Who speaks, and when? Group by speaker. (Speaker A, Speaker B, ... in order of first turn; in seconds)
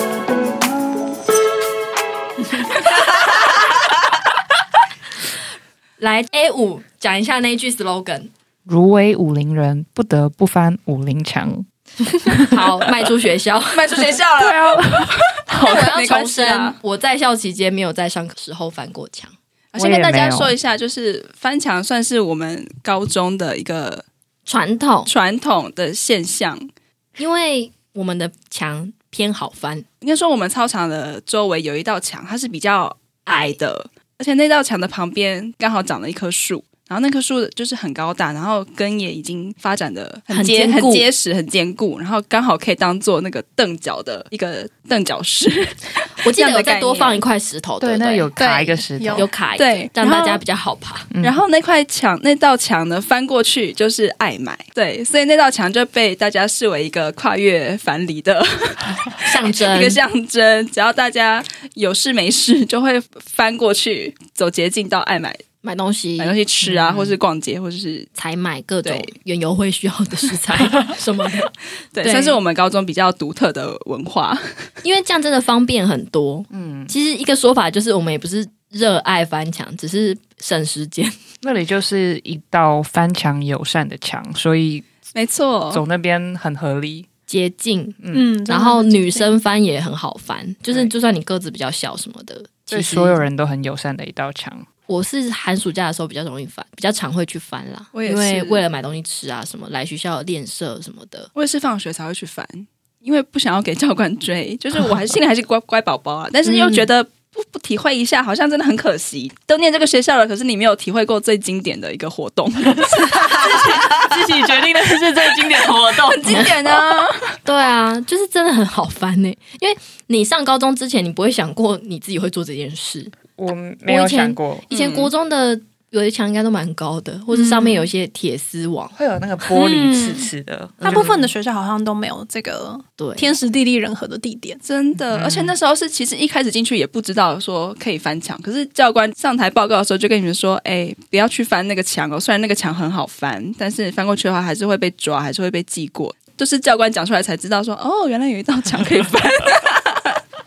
Speaker A: 6.0-8.3, 12.5-14.1, 15.6-19.3, 24.5-25.1, 27.2-29.9, 33.3-33.6, 40.3-41.1, 46.2-48.3, 49.1-51.1, 59.2-60.0, 65.6-66.3, 68.2-72.4, 74.8-81.2, 87.3-88.0, 88.5-93.2, 94.9-101.3, 117.5-123.1, 123.9-128.9, 133.0-133.3
Speaker B: 8.7-11.7, 12.3-12.6, 14.4-15.1, 19.8-20.6, 47.8-49.3, 51.1-51.4, 66.6-67.2, 76.5-77.0, 81.4-84.9, 85.7-87.1, 88.0-88.3, 92.7-94.7, 106.5-106.8, 113.1-116.5, 123.4-124.7, 128.9-131.3, 135.1-135.5
Speaker C: 13.7-16.8, 19.7-24.1, 25.1-26.7, 30.0-47.2, 49.6-50.4, 51.2-65.4, 66.2-68.1, 68.8-69.1, 71.9-74.7, 85.1-85.8, 97.9-98.6, 101.4-114.2, 115.3-117.4, 124.7-125.1, 134.6-150.2
Speaker D: 48.4-49.3, 88.1-89.3, 127.3-127.9, 129.5-130.3, 130.8-134.6